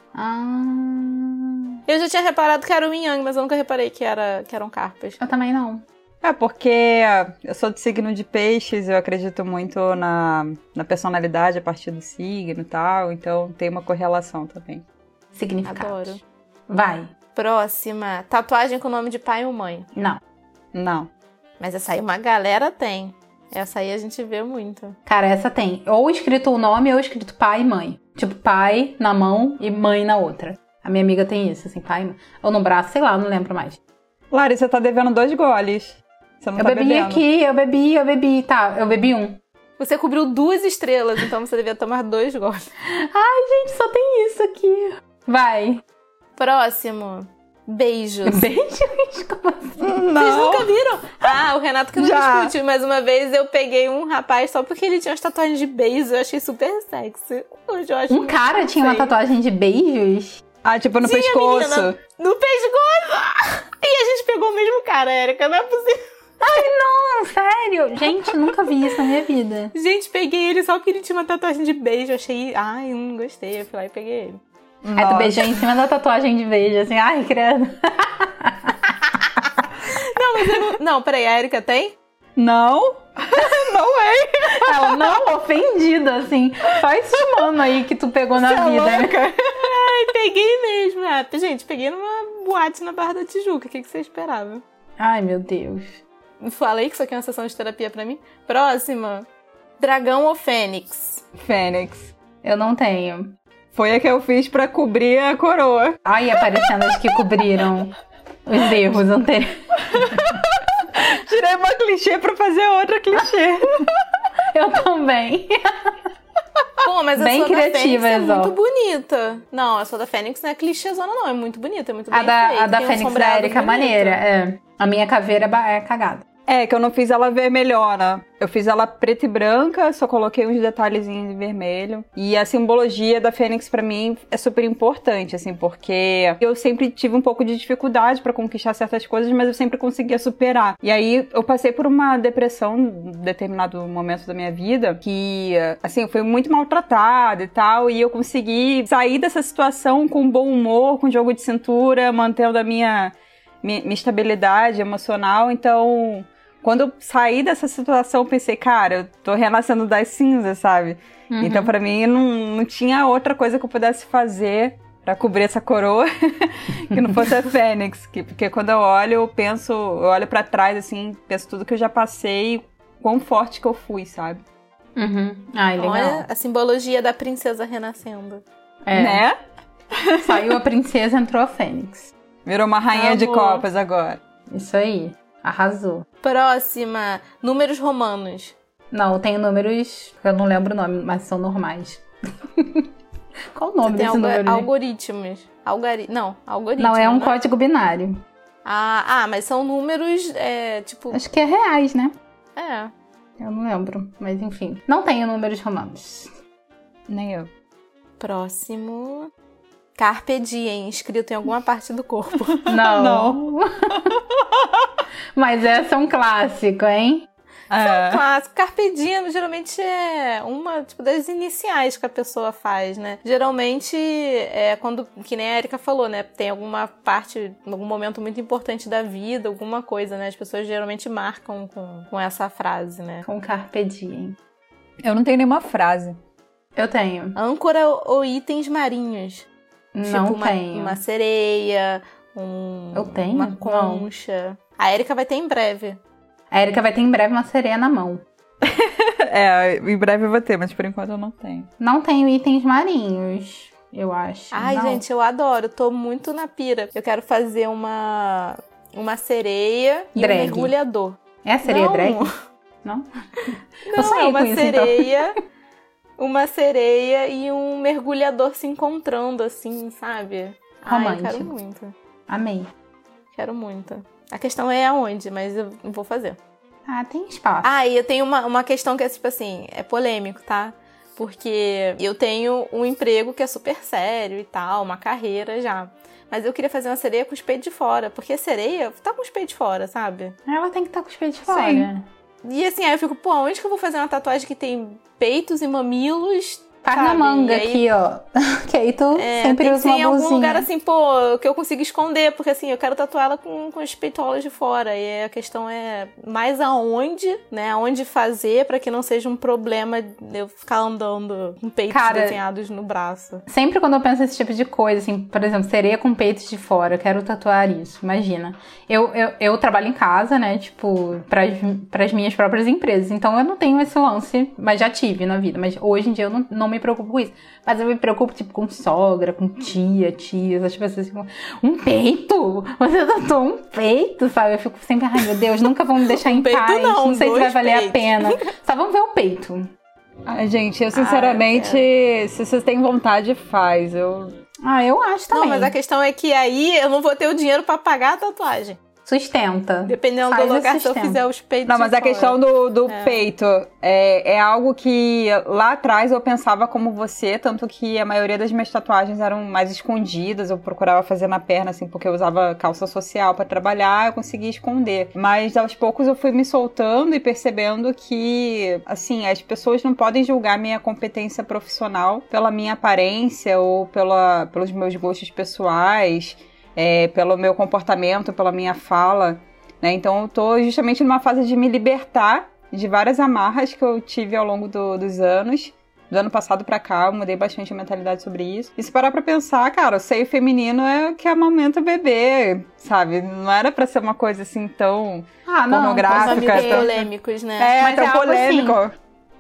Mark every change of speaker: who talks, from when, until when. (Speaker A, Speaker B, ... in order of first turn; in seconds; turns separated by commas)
Speaker A: 0.1-1.6, Speaker B: 1.9-5.2, Speaker A: 5.2-5.8, Speaker C: 6.2-14.8, Speaker A: 15.3-17.1, Speaker B: 15.6-16.2, Speaker B: 17.3-19.9, Speaker A: 19.9-20.2, Speaker C: 20.7-21.1, Speaker B: 21.6-25.0, Speaker A: 25.1-33.8, Speaker C: 34.3-37.2, Speaker A: 36.6-39.4, Speaker B: 39.8-42.6, Speaker A: 42.9-45.8, Speaker B: 46.4-48.5, Speaker A: 48.2-49.9, Speaker C: 49.8-50.7, Speaker B: 50.2-59.1, Speaker C: 52.0-52.5, Speaker A: 58.1-60.4, Speaker C: 60.6-62.0, Speaker B: 61.0-66.0, Speaker A: 66.4-69.7, Speaker B: 69.7-74.4, Speaker C: 74.8-75.6, Speaker A: 75.0-78.9, Speaker B: 79.8-82.0, Speaker C: 82.3-85.2, Speaker A: 84.5-89.2, Speaker C: 88.3-89.7, Speaker B: 89.6-94.6, Speaker A: 95.0-96.0, Speaker B: 96.4-99.3, Speaker B: 99.8-101.2, Speaker C: 101.3-102.1, Speaker A: 102.4-103.3, Speaker C: 103.7-106.0, Speaker A: 106.0-107.9, Speaker A: 108.5-110.4, Speaker C: 109.9-113.9, Speaker A: 114.5-115.9, Speaker B: 116.8-124.2, Speaker A: 117.2-118.5, Speaker A: 122.1-126.2, Speaker C: 126.5-174.4, Speaker A: 161.3-161.7, Speaker A: 174.9-176.2, Speaker B: 175.8-178.4, Speaker A: 178.8-179.2, Speaker C: 178.9-179.4, Speaker C: 179.9-180.6, Speaker A: 180.2-182.1, Speaker C: 182.4-184.2, Speaker B: 182.9-183.6, Speaker A: 184.5-186.0, Speaker B: 186.2-188.5, Speaker A: 188.9-192.0, Speaker A: 192.6-192.8, Speaker A: 193.5-194.7, Speaker B: 193.8-197.3, Speaker A: 196.8-198.2, Speaker B: 198.6-201.2, Speaker A: 201.1-202.1, Speaker B: 202.6-202.9, Speaker A: 203.4-206.3, Speaker C: 207.1-207.5, Speaker B: 208.2-209.3, Speaker B: 210.0-212.7, Speaker A: 212.7-214.1, Speaker C: 212.7-213.4, Speaker C: 213.9-214.9, Speaker A: 215.3-217.2, Speaker C: 217.7-218.2, Speaker B: 217.8-233.2, Speaker A: 233.2-234.3, Speaker C: 235.0-236.2, Speaker A: 236.8-237.3, Speaker B: 237.3-239.5, Speaker A: 239.9-241.0, Speaker B: 240.1-246.0, Speaker A: 242.9-244.1, Speaker A: 246.5-248.2, Speaker C: 248.6-251.7, Speaker A: 251.8-255.0, Speaker B: 254.5-262.3, Speaker A: 260.1-260.7, Speaker A: 261.4-262.3, Speaker A: 262.8-265.3, Speaker B: 263.8-265.4, Speaker B: 266.2-271.9, Speaker A: 270.9-271.5, Speaker A: 272.3-272.7, Speaker B: 273.3-276.4, Speaker A: 276.9-277.7, Speaker B: 277.6-290.4, Speaker A: 290.5-292.0, Speaker B: 291.5-291.9, Speaker B: 292.4-297.8, Speaker A: 296.8-300.7, Speaker B: 299.1-313.4, Speaker A: 311.9-312.4, Speaker A: 313.5-339.7, Speaker B: 336.1-338.4, Speaker C: 340.2-344.3, Speaker B: 340.9-341.9, Speaker A: 344.6-345.7, Speaker B: 345.3-348.8, Speaker A: 349.1-351.2, Speaker B: 349.9-353.2, Speaker C: 351.6-396.9, Speaker A: 395.5-397.1, Speaker B: 396.1-397.8, Speaker C: 397.6-398.9, Speaker A: 397.8-398.8